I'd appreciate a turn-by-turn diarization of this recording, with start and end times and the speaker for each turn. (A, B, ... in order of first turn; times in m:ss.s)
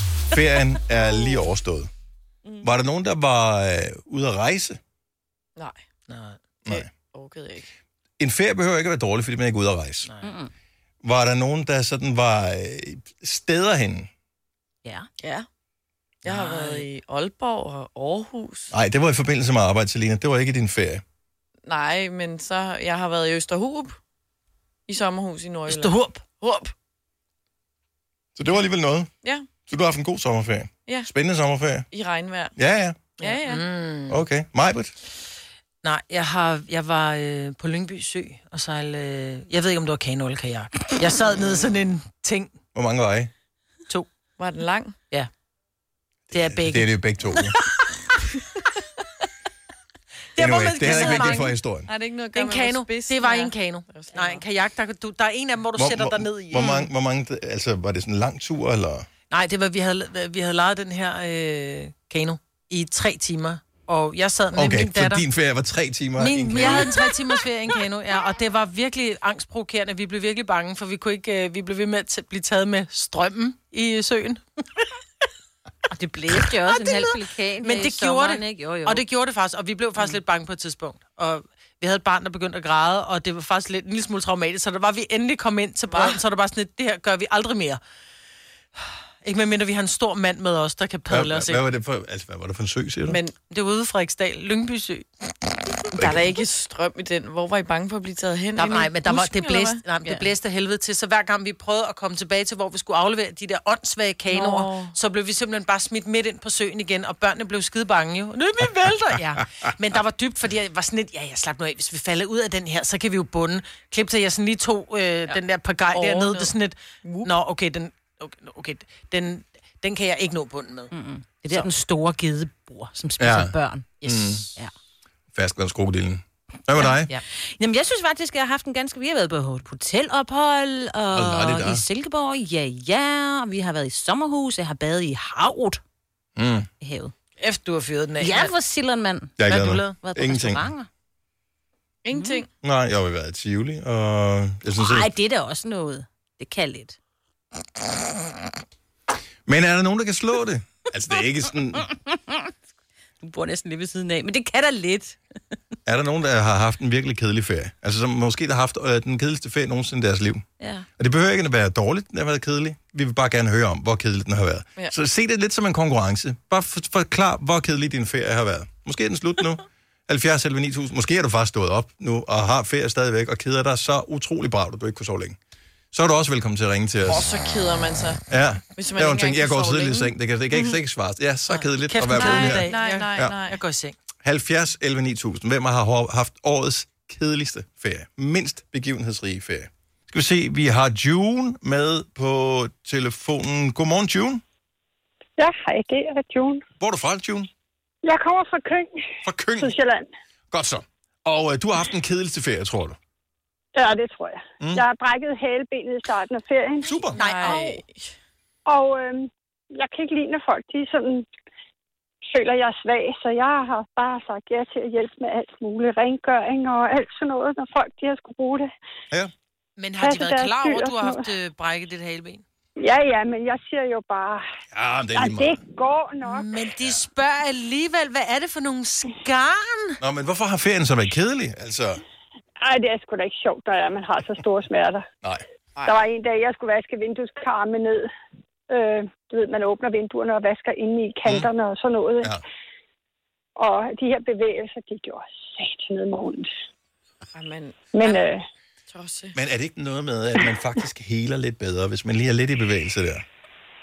0:00.3-0:01.9 A
0:02.6-0:04.8 A
0:06.6-0:06.9 A
0:06.7-0:07.7 B
0:08.2-0:10.1 A
0:10.2-0:10.5 C
0:11.0-0:14.1 A
0:15.2-0:15.5 B
0:16.2-0:18.7 B
0:16.4-0:16.9 D
0:18.7-0:21.0 A
0:21.7-0:24.0 B
0:24.9-0:26.7 B
0:25.7-0:26.3 D
0:28.4-0:29.1 A
0:29.7-0:31.9 A
0:31.9-0:32.5 B
0:32.6-0:33.0 A
0:33.2-0:33.7 B
0:33.2-0:34.2 D
0:34.1-0:34.9 A
0:35.8-0:42.6 D
0:42.7-0:43.3 A
0:44.4-0:45.0 B
0:46.3-0:47.6 A
0:46.3-0:48.0 D
0:50.4-0:51.5 D
0:50.4-0:51.9 A
0:50.8-0:54.4 B
0:52.3-0:56.9 D
0:55.8-0:59.1 A
0:59.3-1:05.2 D
1:04.6-1:07.0 A
1:06.2-1:14.9 D
1:15.9-1:19.1 C
1:16.7-1:27.8 D
1:25.9-1:26.2 B
1:29.2-1:31.6 D
1:31.1-1:33.2 A
1:33.1-1:33.4 B
1:33.5-1:35.5 D
1:35.9-1:40.1 B
1:36.0-1:36.3 A
1:38.6-2:00.9 D
1:44.3-1:44.9 B
1:55.9-1:57.3 B
2:00.9-2:04.7 C
2:03.2-2:04.5 A
2:04.0-2:04.4 B
2:05.3-2:07.1 A
2:07.6-2:15.8 C
2:11.1-2:11.8 A
2:16.4-2:16.7 A
2:16.8-2:17.1 C
2:17.4-2:18.6 D
2:18.2-2:19.4 C
2:19.4-2:20.7 A
2:19.4-2:20.0 D
2:19.9-2:20.9 C
2:22.0-2:22.5 B
2:22.1-2:22.4 C
2:22.6-2:25.1 A
2:24.8-2:27.0 C
2:29.5-2:31.8 A
2:31.8-2:32.5 C
2:33.2-2:35.2 C
2:35.9-2:40.4 A
2:40.6-2:40.9 C
2:41.0-2:55.4 A
2:55.9-2:57.3 A
2:57.1-2:58.2 B
2:58.3-3:03.4 A
2:58.8-3:00.1 B
3:01.5-3:04.0 D
3:02.1-3:03.6 B
3:04.2-3:14.4 A
3:15.4-3:16.6 E
3:16.8-3:17.5 A
3:18.0-3:20.1 E
3:19.2-3:19.8 A
3:20.5-3:23.0 A
3:23.8-3:27.2 E
3:26.8-3:27.2 A
3:27.1-3:28.1 B
3:27.2-3:27.8 D
3:28.7-3:31.3 E
3:32.3-3:38.7 E
3:39.8-3:42.4 D
3:40.0-3:41.3 E
3:42.8-3:44.4 E
3:44.7-3:45.6 A
3:45.1-3:46.5 E
3:46.2-3:50.0 D
3:50.0-3:52.0 A
3:52.6-3:55.0 E
3:55.8-3:58.1 E
3:58.7-4:02.4 E
4:03.6-4:06.5 E
4:07.3-4:07.9 B
4:07.9-4:08.4 E
4:08.9-4:09.4 B
4:09.3-4:13.2 A